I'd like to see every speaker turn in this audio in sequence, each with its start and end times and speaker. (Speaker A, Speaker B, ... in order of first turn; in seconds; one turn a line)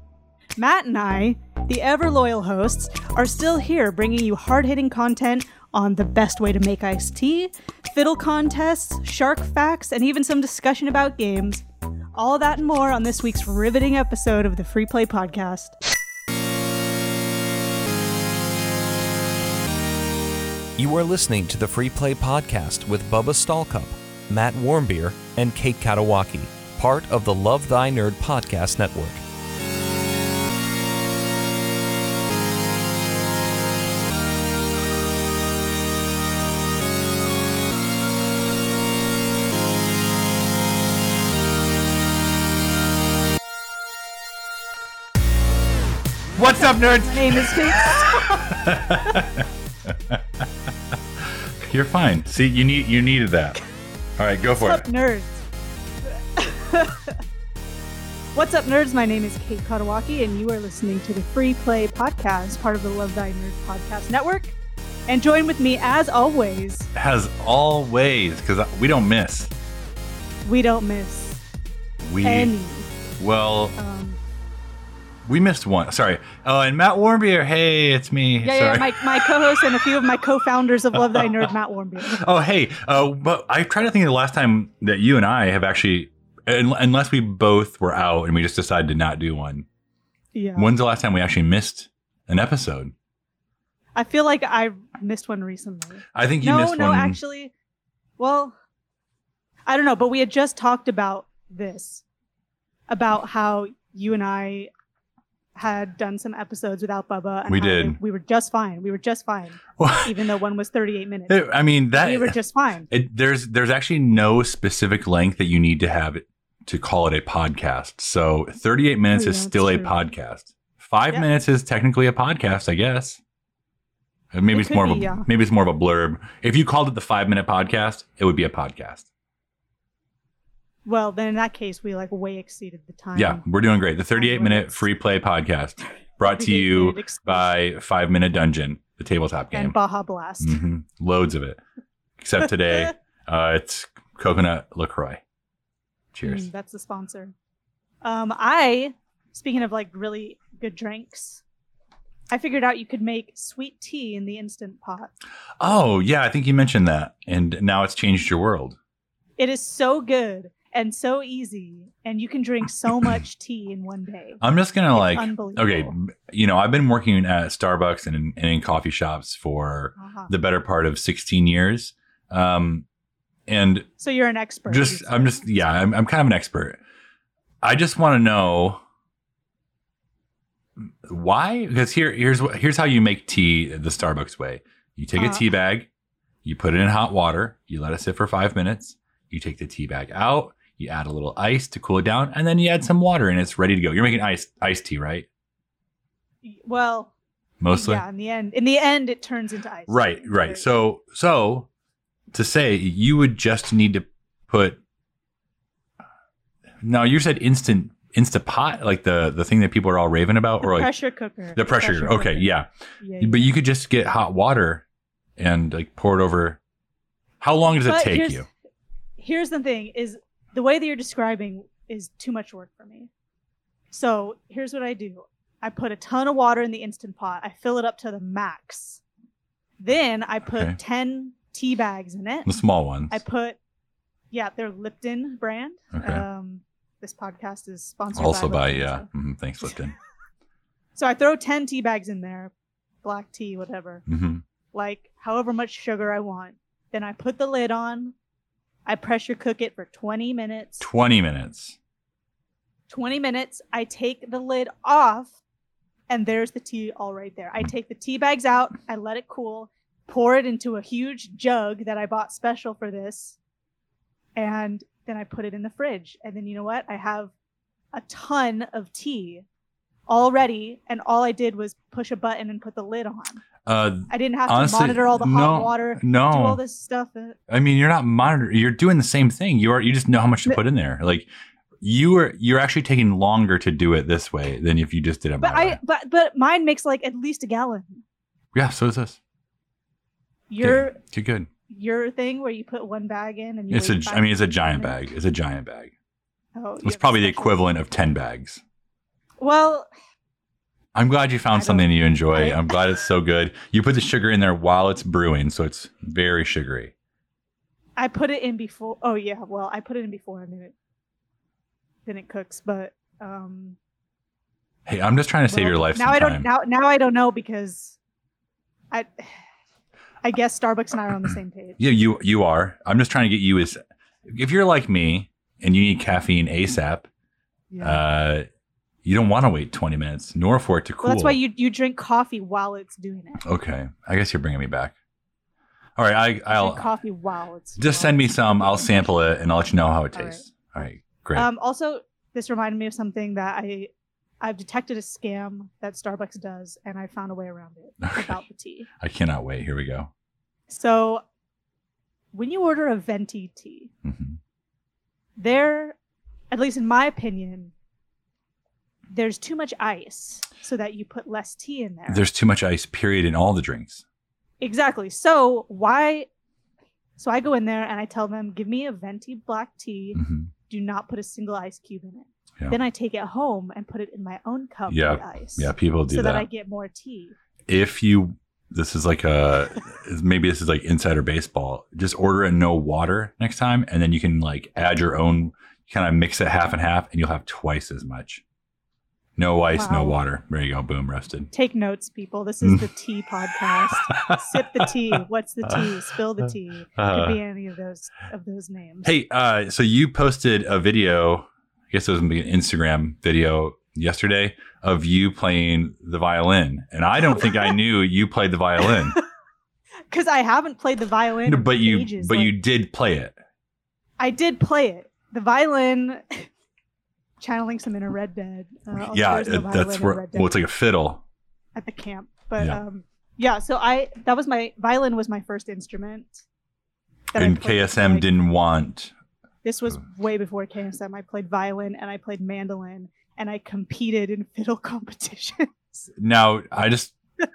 Speaker A: 0.6-11.6
Speaker A: 12.2-15.8
Speaker B: 20.8-29.2
Speaker C: 46.4-50.2
Speaker A: 46.4-49.3
Speaker C: 51.6-53.6
Speaker C: 54.2-54.9
Speaker A: 54.5-55.4
Speaker A: 56.2-57.2
Speaker A: 58.3-64.5
Speaker A: 65.1-66.9
Speaker C: 66.9-69.5
Speaker A: 70.4-71.4
Speaker C: 72.0-72.5
Speaker A: 72.2-72.9
Speaker C: 73.2-73.7
Speaker A: 73.8-74.2
Speaker C: 75.2-79.8
Speaker A: 78.4-82.2
Speaker C: 81.0-81.5
Speaker C: 82.0-89.7
Speaker A: 90.3-90.7
Speaker C: 90.5-92.9
Speaker A: 94.0-97.5
Speaker C: 96.1-97.2
Speaker A: 98.2-98.5
Speaker A: 99.7-102.0
Speaker A: 102.9-104.7
Speaker A: 105.5-112.9
Speaker C: 107.5-108.0
Speaker C: 109.8-110.2
Speaker C: 111.3-112.4
Speaker C: 112.9-123.2
Speaker A: 119.1-120.0
Speaker C: 124.3-129.1
Speaker A: 124.5-125.3
Speaker A: 130.8-133.4
Speaker C: 133.1-139.8
Speaker A: 134.1-134.9
Speaker A: 136.2-137.5
Speaker A: 139.5-140.6
Speaker C: 140.4-141.6
Speaker C: 142.2-145.2
Speaker C: 146.1-146.5
Speaker A: 146.2-147.3
Speaker A: 148.0-151.4
Speaker A: 152.3-155.1
Speaker C: 155.6-158.8
Speaker A: 159.4-165.9
Speaker C: 164.4-172.8
Speaker A: 170.0-170.3
Speaker C: 173.5-173.9
Speaker A: 174.0-175.6
Speaker C: 174.7-176.8
Speaker C: 177.6-178.8
Speaker C: 180.8-185.9
Speaker A: 185.2-185.4
Speaker C: 186.4-195.3
Speaker A: 196.4-197.1
Speaker C: 197.6-198.0
Speaker A: 197.7-200.7
Speaker C: 199.9-201.7
Speaker C: 202.3-204.8
Speaker C: 206.8-210.9
Speaker A: 210.6-213.6
Speaker C: 211.6-212.7
Speaker C: 213.2-214.8
Speaker C: 215.4-216.6
Speaker C: 217.4-218.4
Speaker A: 217.8-218.4
Speaker A: 219.2-223.1
Speaker A: 223.9-229.0
Speaker A: 229.8-232.5
Speaker C: 230.5-230.8
Speaker C: 232.4-233.2
Speaker A: 233.1-233.6
Speaker A: 234.3-239.1
Speaker C: 235.9-236.2
Speaker C: 238.1-240.0
Speaker A: 240.9-242.5
Speaker A: 243.0-244.0
Speaker C: 244.1-244.4
Speaker A: 244.7-248.1
Speaker A: 248.8-250.9
Speaker C: 250.8-251.8
Speaker A: 252.9-255.4
Speaker A: 256.1-263.4
Speaker A: 264.4-267.3
Speaker A: 267.9-269.4
Speaker A: 270.1-273.4
Speaker C: 273.6-276.6
Speaker A: 274.1-277.4
Speaker C: 277.5-281.3
Speaker C: 281.8-285.8
Speaker A: 285.4-288.0
Speaker C: 288.5-289.2
Speaker A: 290.5-291.0
Speaker C: 290.6-291.5
Speaker A: 291.7-295.0
Speaker C: 293.7-295.9
Speaker A: 296.5-297.6
Speaker C: 296.8-298.6
Speaker A: 299.4-299.9
Speaker C: 300.9-306.9
Speaker A: 301.5-302.7
Speaker A: 308.0-310.7
Speaker A: 312.0-313.8
Speaker C: 314.9-316.5
Speaker A: 315.5-318.0
Speaker A: 318.9-319.4
Speaker A: 320.2-321.8
Speaker C: 321.8-327.1
Speaker A: 327.7-328.0
Speaker C: 327.8-328.5
Speaker C: 329.0-331.4
Speaker A: 331.0-333.4
Speaker C: 333.4-334.9
Speaker C: 335.9-336.9
Speaker A: 336.5-339.1
Speaker C: 337.8-341.5
Speaker A: 340.1-340.4
Speaker A: 341.3-348.9
Speaker C: 348.0-348.4
Speaker C: 349.0-350.1
Speaker A: 350.7-351.2
Speaker A: 352.3-353.9
Speaker C: 354.0-354.4
Speaker A: 355.4-356.0
Speaker A: 356.5-357.7
Speaker A: 359.1-362.3
Speaker C: 362.1-364.0
Speaker A: 364.6-366.3
Speaker A: 367.2-377.3
Speaker C: 370.1-370.5
Speaker C: 374.9-376.5
Speaker C: 377.7-388.4
Speaker C: 389.4-391.5
Speaker A: 389.7-390.2
Speaker A: 391.5-399.1
Speaker C: 393.6-394.9
Speaker C: 397.0-397.4
Speaker C: 399.0-409.2
Speaker A: 410.1-412.6
Speaker C: 411.4-413.3
Speaker A: 414.2-416.5
Speaker A: 417.4-420.5
Speaker C: 419.0-421.2
Speaker A: 421.8-426.4
Speaker A: 427.3-428.3
Speaker C: 427.3-429.1
Speaker A: 429.6-436.1
Speaker C: 436.2-437.1